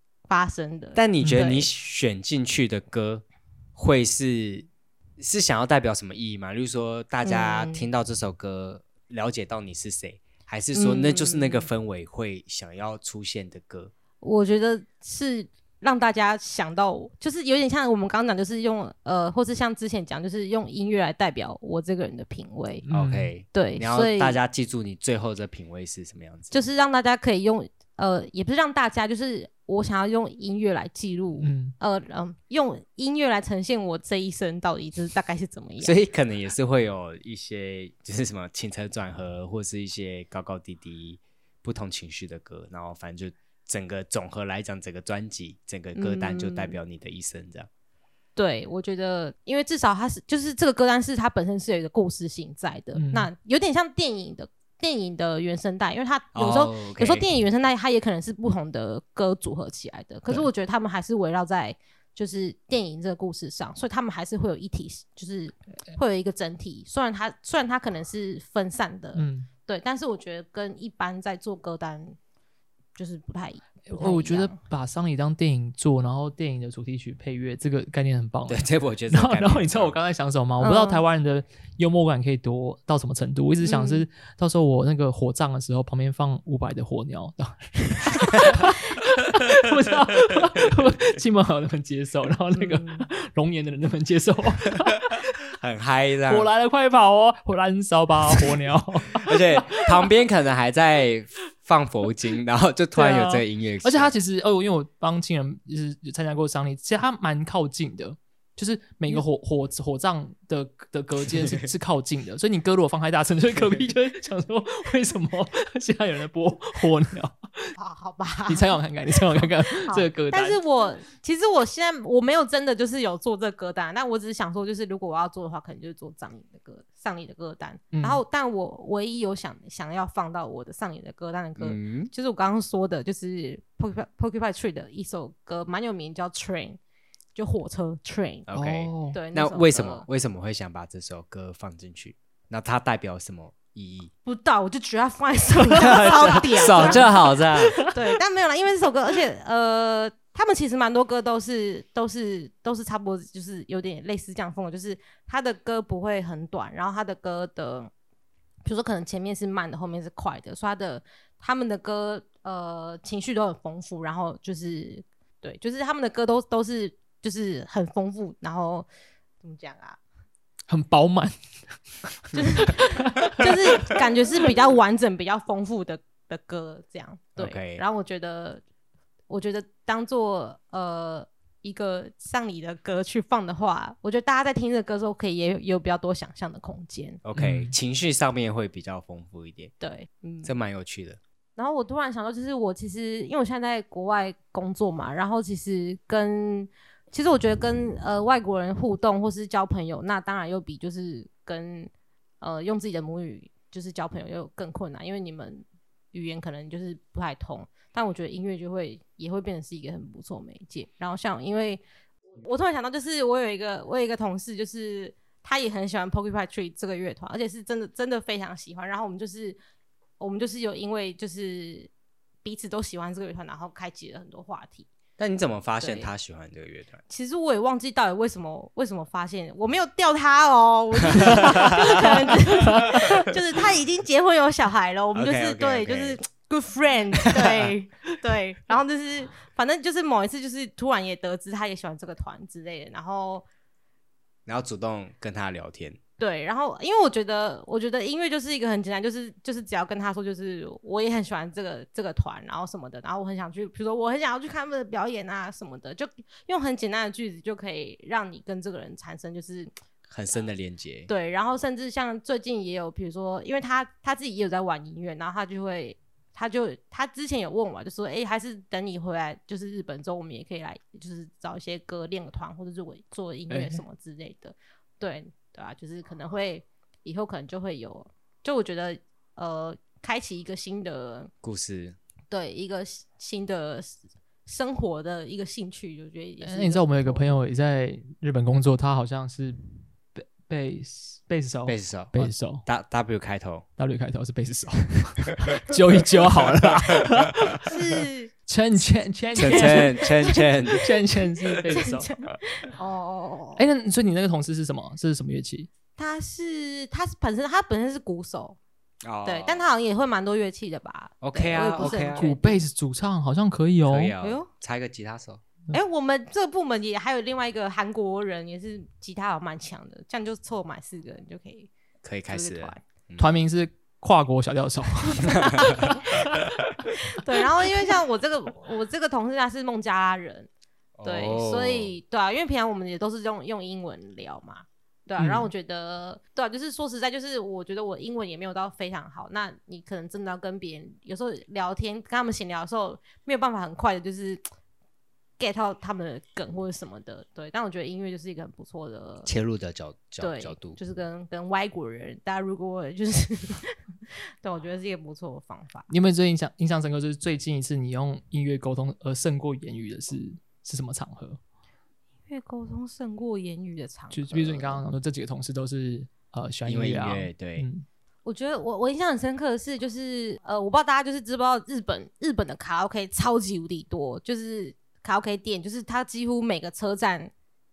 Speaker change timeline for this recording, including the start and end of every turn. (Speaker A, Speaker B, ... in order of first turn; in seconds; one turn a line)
Speaker A: 0.3-1.7
Speaker B: 0.9-3.2
Speaker C: 1.2-1.4
Speaker B: 3.8-4.7
Speaker B: 5.2-13.9
Speaker A: 7.2-7.9
Speaker A: 10.7-11.7
Speaker A: 14.2-22.9
Speaker C: 22.9-23.3
Speaker B: 22.9-26.6
Speaker A: 23.5-24.4
Speaker A: 26.5-36.0
Speaker C: 31.4-31.8
Speaker B: 35.8-47.7
Speaker A: 46.0-46.8
Speaker A: 48.4-72.2
Speaker C: 53.0-53.3
Speaker B: 56.3-57.3
Speaker C: 69.2-69.5
Speaker A: 73.0-74.6
Speaker C: 73.9-95.2
Speaker B: 78.5-79.9
Speaker A: 80.6-81.0
Speaker A: 83.6-84.1
Speaker A: 92.6-93.1
Speaker B: 95.6-96.5
Speaker C: 96.3-100.1
Speaker B: 99.1-104.1
Speaker C: 103.0-117.7
Speaker B: 111.4-111.7
Speaker A: 117.8-136.8
Speaker C: 118.5-120.6
Speaker C: 127.9-128.2
Speaker B: 131.6-132.1
Speaker A: 137.3-138.5
Speaker B: 138.5-144.1
Speaker C: 138.5-139.2
Speaker A: 139.1-140.1
Speaker A: 144.3-157.9
Speaker B: 145.8-147.8
Speaker C: 145.8-147.2
Speaker A: 158.7-168.9
Speaker A: 169.4-170.0
Speaker C: 170.7-171.3
Speaker A: 172.3-178.6
Speaker C: 172.5-173.5
Speaker B: 177.4-177.8
Speaker A: 179.3-187.2
Speaker B: 187.2-189.7
Speaker C: 187.4-187.7
Speaker A: 189.8-190.5
Speaker B: 190.4-191.2
Speaker A: 191.6-201.9
Speaker A: 202.4-211.8
Speaker A: 212.4-219.6
Speaker A: 220.2-221.9
Speaker A: 222.4-224.9
Speaker B: 225.2-227.0
Speaker A: 225.8-226.1
Speaker A: 227.1-243.4
Speaker B: 231.1-233.1
Speaker B: 235.1-236.2
Speaker B: 237.3-237.7
Speaker B: 244.5-246.0
Speaker A: 246.2-259.7
Speaker B: 260.1-261.1
Speaker A: 261.1-281.3
Speaker C: 273.5-273.8
Speaker B: 281.4-282.0
Speaker A: 282.3-287.4
Speaker C: 286.4-289.6
Speaker C: 290.1-292.6
Speaker B: 291.7-293.6
Speaker C: 293.8-297.7
Speaker A: 297.6-298.3
Speaker C: 298.5-302.1
Speaker B: 299.4-300.9
Speaker A: 299.4-300.7
Speaker A: 301.5-303.6
Speaker C: 303.6-305.7
Speaker A: 306.0-308.6
Speaker B: 309.0-309.7
Speaker A: 309.2-312.6
Speaker B: 311.2-312.3
Speaker C: 311.8-314.1
Speaker B: 313.9-315.4
Speaker A: 314.2-314.5
Speaker A: 315.7-321.7
Speaker B: 322.0-323.4
Speaker A: 322.3-322.8
Speaker C: 323.2-326.0
Speaker B: 325.3-325.9
Speaker A: 327.1-330.5
Speaker B: 331.0-331.9
Speaker A: 331.1-344.4
Speaker C: 335.2-335.5
Speaker A: 345.4-349.3
Speaker B: 349.3-350.8
Speaker A: 350.2-353.8
Speaker A: 354.4-355.9
Speaker C: 355.9-361.4
Speaker A: 362.3-364.8
Speaker C: 364.1-367.9
Speaker B: 366.7-367.7
Speaker A: 368.2-377.3